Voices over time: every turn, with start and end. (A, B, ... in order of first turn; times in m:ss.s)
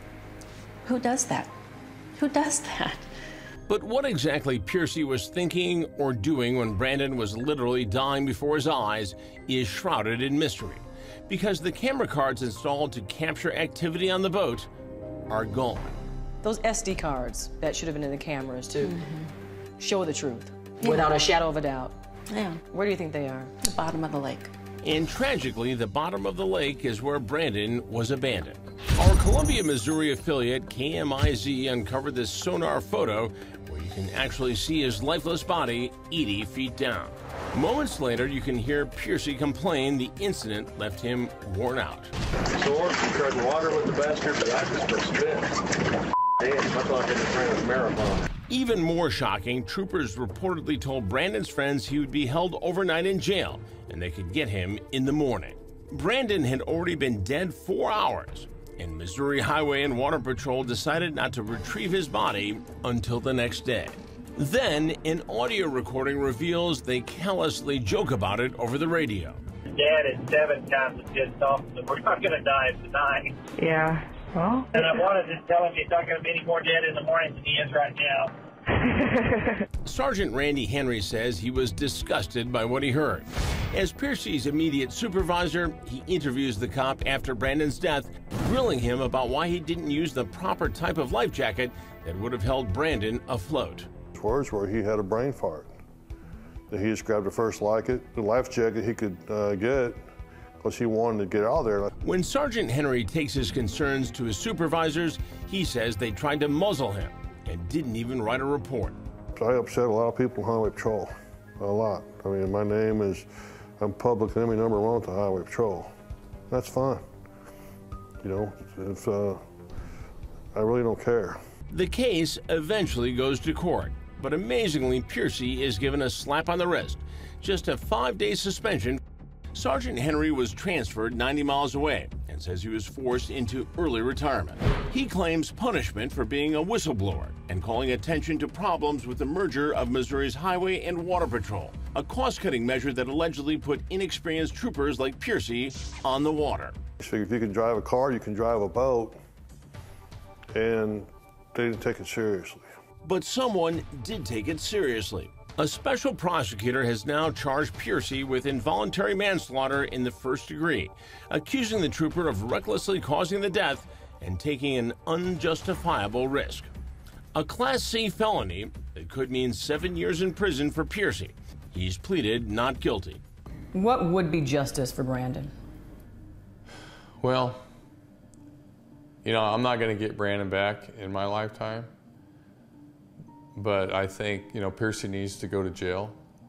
0:00.8-0:01.5 A
0:02.2-0:03.1 A
0:03.7-0:14.7 B
0:15.3-0:16.0 B
0:16.4-0:19.0 C
0:18.8-0:19.3 A
0:19.8-0:22.0 C
0:20.8-0:21.1 A
0:22.3-0:22.6 A
0:22.7-0:23.5 C
0:23.6-0:24.5 A
0:24.8-0:42.1 B
0:42.5-0:45.6 D
0:46.4-0:48.3 D
0:48.5-1:09.4 B
1:09.7-1:13.4 E
1:14.7-1:18.3 E
1:19.8-1:33.9 B
1:34.1-1:35.8 F
1:36.7-1:40.0 F
1:40.6-1:41.9 F
1:42.0-1:49.0 B
1:49.3-1:53.3 F
1:53.8-1:55.9 F
1:56.5-1:57.0 F
1:58.2-1:59.4 F
2:00.5-2:01.4 F
2:01.7-2:09.0 B
2:09.5-2:26.8 B
2:27.0-2:29.2 F
2:30.5-2:32.7 F
2:33.0-2:46.7 B
2:47.3-2:53.2 B
2:53.7-2:55.5 C
2:57.2-2:57.6 G
2:59.2-3:01.9 G
3:03.5-3:06.2 G